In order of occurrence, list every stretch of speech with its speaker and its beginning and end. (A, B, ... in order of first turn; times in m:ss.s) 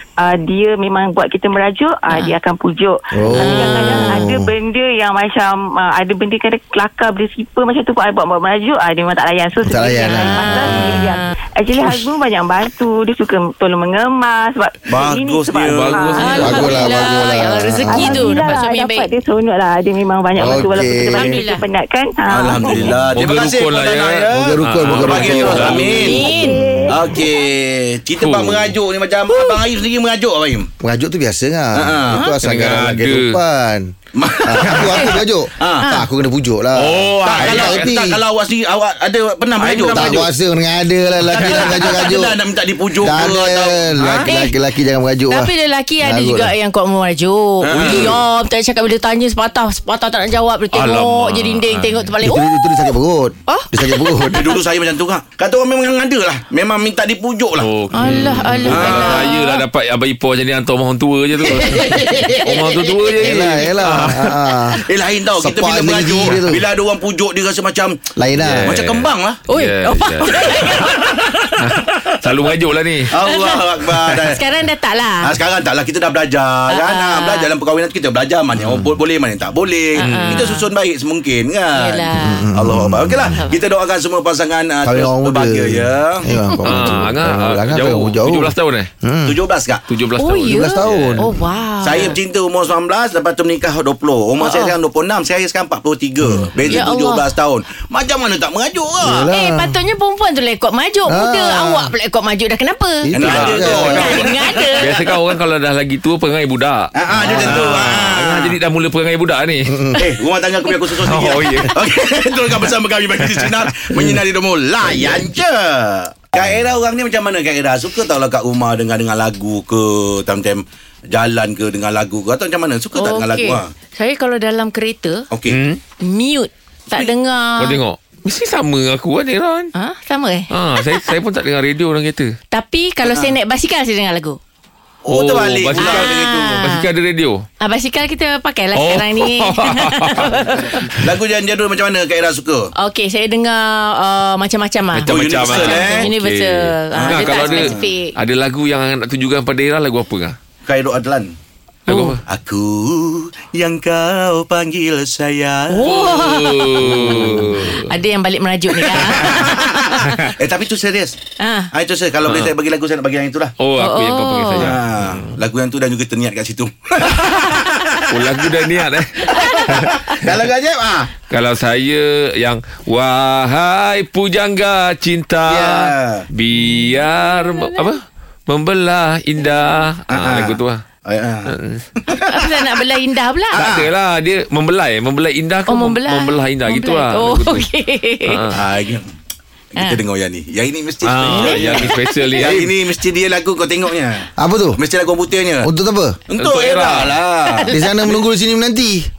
0:00.2-0:17.3 A
0:02.1-0:02.4 B
0:03.1-0:04.5 C
0:03.4-0:04.2 B
0:09.6-0:11.1 C
0:10.0-0:11.3 B
0:14.9-0:16.4 D
0:15.6-0:16.8 E
0:16.2-0:19.1 B
0:16.4-0:18.5 C
0:17.9-0:23.0 A
0:20.4-0:21.4 C
0:21.1-0:21.6 B
0:22.3-0:26.3 D
0:22.7-0:26.2 E
0:24.3-0:26.5 C
0:25.6-0:27.2 A
0:26.0-0:26.8 B
0:26.9-0:30.7 D
0:28.2-0:28.7 E
0:30.8-0:33.9 C
0:31.7-0:32.2 D
0:32.3-0:33.3 E
0:34.1-0:35.9 D
0:34.4-0:38.2 C
0:35.8-0:36.1 B
0:36.8-0:38.0 E
0:37.2-0:40.3 D
0:39.6-0:40.3 E
0:39.8-0:42.4 C
0:41.3-0:44.3 D
0:43.0-0:46.5 C
0:44.3-0:44.5 B
0:45.3-0:52.9 B
0:47.6-0:48.2 D
0:50.7-0:52.1 E
0:52.2-0:54.5 C
0:53.5-0:54.5 B
0:54.3-0:57.7 D
0:57.6-1:04.6 E
0:57.9-0:59.6 B
0:58.6-0:59.4 D
1:01.4-1:02.4 D
1:02.3-1:04.8 C
1:04.8-1:09.4 D
1:05.4-1:06.6 C
1:08.2-1:08.8 C
1:08.4-1:10.9 E
1:09.5-1:11.5 B
1:10.4-1:12.1 D
1:11.6-1:13.1 E
1:13.1-1:14.4 D
1:13.2-1:15.3 B
1:15.2-1:26.3 D
1:16.7-1:17.5 B
1:20.0-1:20.7 B
1:20.0-1:20.4 E
1:21.7-1:22.4 B
1:22.2-1:23.4 C
1:24.8-1:29.4 C
1:26.3-1:27.0 B
1:26.6-1:28.9 E
1:29.2-1:29.8 D
1:29.9-1:31.3 E
1:30.2-1:32.2 B
1:30.4-1:31.4 C
1:31.8-1:39.2 D
1:34.4-1:34.7 B
1:36.2-1:36.5 C
1:36.6-1:37.3 B
1:39.0-1:39.8 C
1:39.2-1:43.1 B
1:41.1-1:41.9 C
1:43.0-1:44.1 C
1:43.1-1:44.8 D
1:43.2-1:49.8 E
1:43.7-1:44.9 B
1:46.9-1:48.6 D
1:47.1-1:47.7 C
1:49.7-1:50.0 C
1:49.9-2:03.7 D
1:51.0-1:51.8 E
1:53.2-1:53.6 E
2:02.9-2:05.2 B
2:05.3-2:05.6 D
2:05.5-2:05.8 E
2:06.0-2:07.8 B
2:07.6-2:09.7 E
2:09.7-2:10.9 B
2:10.5-2:12.3 E
2:12.5-2:14.4 B
2:13.0-2:13.3 D
2:15.0-2:16.6 D
2:15.1-2:17.4 E
2:15.8-2:16.8 B
2:17.6-2:20.9 B
2:18.7-2:20.8 E
2:20.9-2:22.7 D
2:22.8-2:28.1 B
2:24.9-2:30.4 E
2:25.1-2:26.1 D
2:26.9-2:27.9 D
2:30.6-2:31.3 D
2:31.9-2:32.2 E
2:31.9-2:32.1 B
2:32.2-2:35.9 D
2:35.7-2:39.8 B
2:35.8-2:37.9 E
2:37.0-2:37.6 C
2:39.0-2:41.2 D
2:39.0-2:40.1 E
2:41.4-2:41.7 B
2:41.7-2:43.5 D
2:42.2-2:42.5 E
2:43.6-2:45.2 E
2:43.8-2:44.7 B
2:44.6-2:48.5 D
2:48.1-2:49.9 E
2:49.2-2:49.8 B
2:49.3-2:51.1 D
2:51.3-3:00.8 E
2:55.4-2:56.3 D
2:56.6-2:57.7 B
3:00.1-3:02.5 D
3:01.5-3:01.8 E
3:02.3-3:03.6 B
3:03.5-3:07.7 E
3:03.6-3:03.9 D
3:05.7-3:08.5 B
3:08.3-3:08.5 E
3:08.5-3:09.1 D
3:09.7-3:15.7 D
3:11.0-3:12.7 E
3:11.2-3:12.5 B
3:14.4-3:14.8 C
3:15.6-3:16.2 C
3:16.3-3:18.1 D
3:16.4-3:17.2 E
3:17.5-3:18.0 B
3:17.7-3:19.0 C